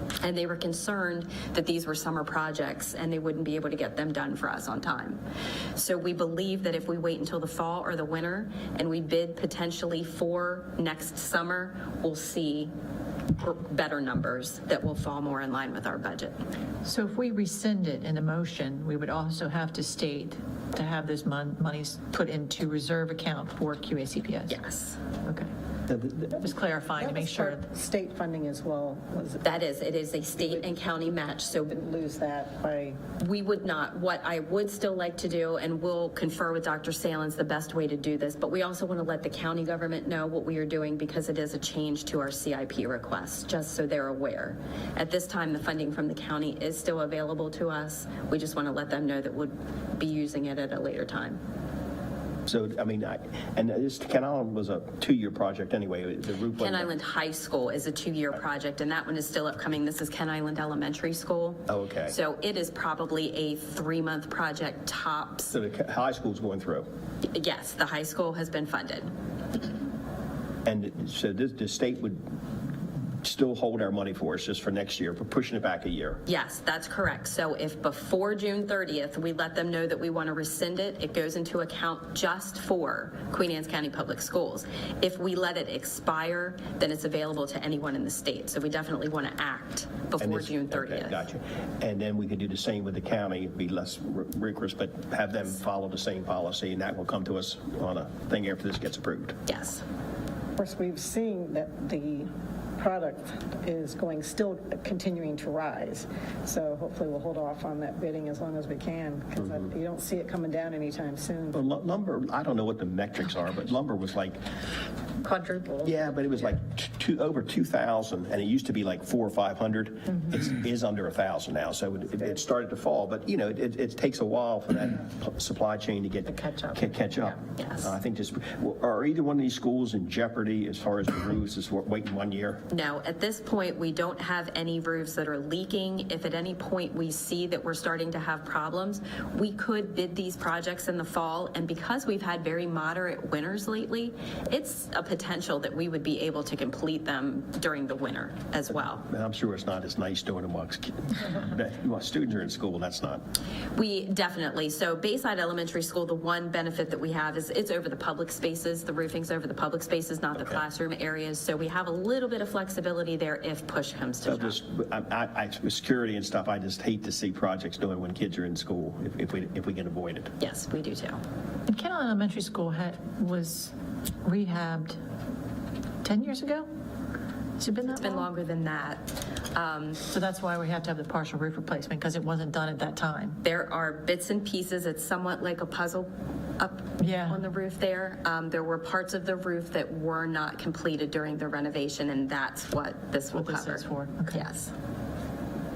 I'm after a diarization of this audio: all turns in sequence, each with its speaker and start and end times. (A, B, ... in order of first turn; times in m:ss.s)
0:00.2-0:05.2 A
0:05.7-0:12.7 A
0:13.4-0:16.4 A
0:16.8-0:24.6 B
0:24.5-0:25.0 A
0:26.3-0:27.6 B
0:27.0-0:29.5 C
0:29.4-0:31.7 A
0:30.4-0:30.6 C
0:31.6-0:33.0 C
0:33.2-0:51.4 A
0:52.5-0:56.9 D
0:56.6-1:05.5 A
1:01.7-1:02.2 D
1:05.5-1:06.8 D
1:07.3-1:09.1 A
1:10.6-1:12.2 D
1:13.2-1:16.2 D
1:16.2-1:31.2 A
1:30.2-1:39.4 D
1:39.5-1:39.8 A
1:40.6-1:51.6 C
1:49.4-1:49.6 D
1:51.5-1:54.4 D
1:55.8-2:12.6 D
2:07.6-2:07.9 A
2:12.7-2:29.1 A
2:29.1-2:33.2 D
2:33.7-2:44.6 A
2:44.2-2:50.3 D
2:50.4-2:51.2 A
2:51.7-2:53.7 B
2:54.2-2:55.0 B
2:56.0-2:56.6 B
2:57.6-2:58.3 B
2:57.9-3:00.0 A
3:00.1-3:03.4 B
3:03.4-3:14.7 A
3:07.0-3:07.4 B
3:13.3-3:14.5 B